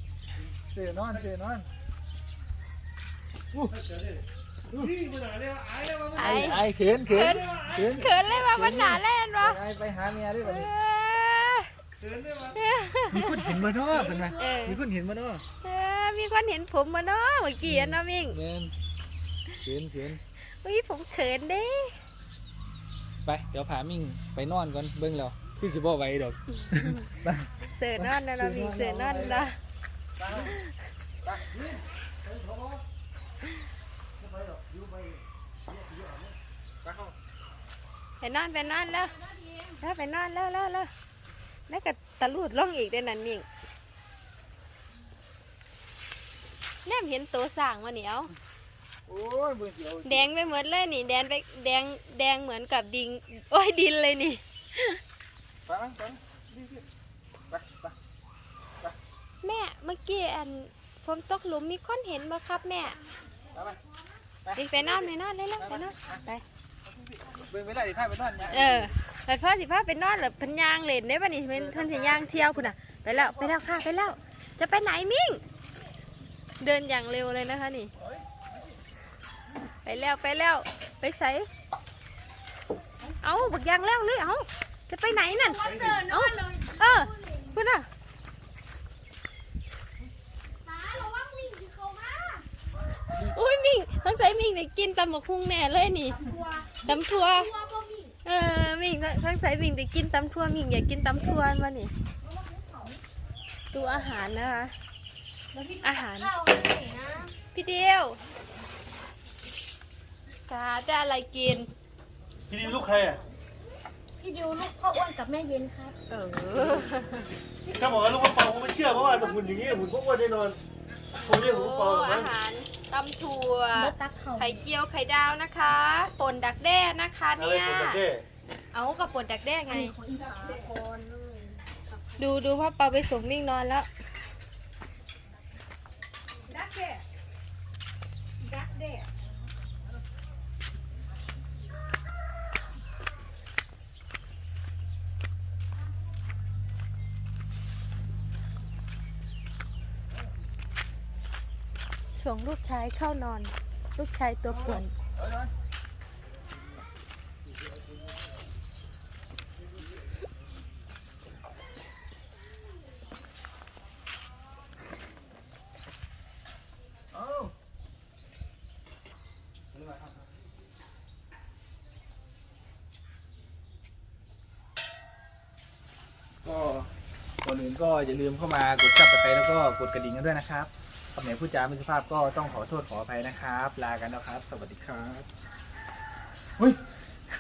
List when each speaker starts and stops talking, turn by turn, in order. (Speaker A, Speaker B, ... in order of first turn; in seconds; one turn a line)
Speaker A: 0.7-1.7
Speaker B: 3.7-4.2
Speaker B: 4.8-6.6
Speaker C: 6.2-9.6
Speaker A: 6.2-10.7
Speaker B: 7.2-7.8
Speaker C: 10.4-11.7
Speaker B: 12.0-12.6
Speaker C: 12.5-13.6
Speaker A: 13.1-15.4
Speaker C: 14.4-14.8
Speaker C: 15.6-18.4
Speaker A: 17.6-18.7
Speaker A: 19.6-20.2
Speaker C: 20.6-22.0
Speaker A: 23.2-29.5
Speaker C: 27.6-29.6
Speaker A: 30.2-30.6
Speaker C: 30.4-30.7
Speaker B: 31.6-32.8
Speaker B: 34.2-36.3
Speaker A: 36.8-37.1
Speaker C: 38.2-40.9
Speaker C: 41.7-43.5
Speaker C: 46.8-48.3
Speaker A: 49.1-50.3
Speaker C: 50.0-55.0
Speaker A: 55.7-56.8
Speaker A: 57.5-58.0
Speaker C: 59.4-63.0
Speaker A: 63.5-63.8
Speaker A: 64.5-66.2
Speaker C: 64.5-66.4
Speaker A: 66.9-68.9
Speaker C: 68.5-75.4
Speaker A: 71.7-72.5
Speaker A: 73.1-73.5
Speaker C: 76.6-77.9
Speaker C: 79.8-81.5
Speaker C: 83.2-87.9
Speaker D: 85.2-87.5
Speaker B: 85.6-86.0
Speaker D: 90.6-92.5
Speaker C: 93.2-96.3
Speaker D: 96.3-98.1
Speaker C: 96.8-97.5
Speaker C: 98.2-101.9
Speaker D: 102.4-103.0
Speaker C: 103.7-104.7
Speaker D: 105.5-107.3
Speaker C: 105.8-106.3
Speaker C: 107.5-108.2
Speaker C: 110.5-111.7
Speaker B: 112.5-113.2
Speaker D: 114.2-116.0
Speaker C: 116.1-117.3
Speaker D: 117.7-118.0
Speaker B: 117.8-120.6
Speaker C: 121.2-128.0
Speaker B: 121.2-122.3
Speaker D: 123.8-124.6
Speaker B: 127.4-128.2
Speaker C: 128.7-130.0
Speaker D: 129.7-132.2
Speaker C: 132.2-133.9
Speaker D: 136.5-137.0
Speaker D: 138.4-139.1
Speaker C: 152.2-154.9
Speaker A: 154.5-155.5
Speaker A: 167.1-167.5
Speaker A: 169.7-170.2
Speaker A: 176.4-176.9
Speaker A: 177.4-185.3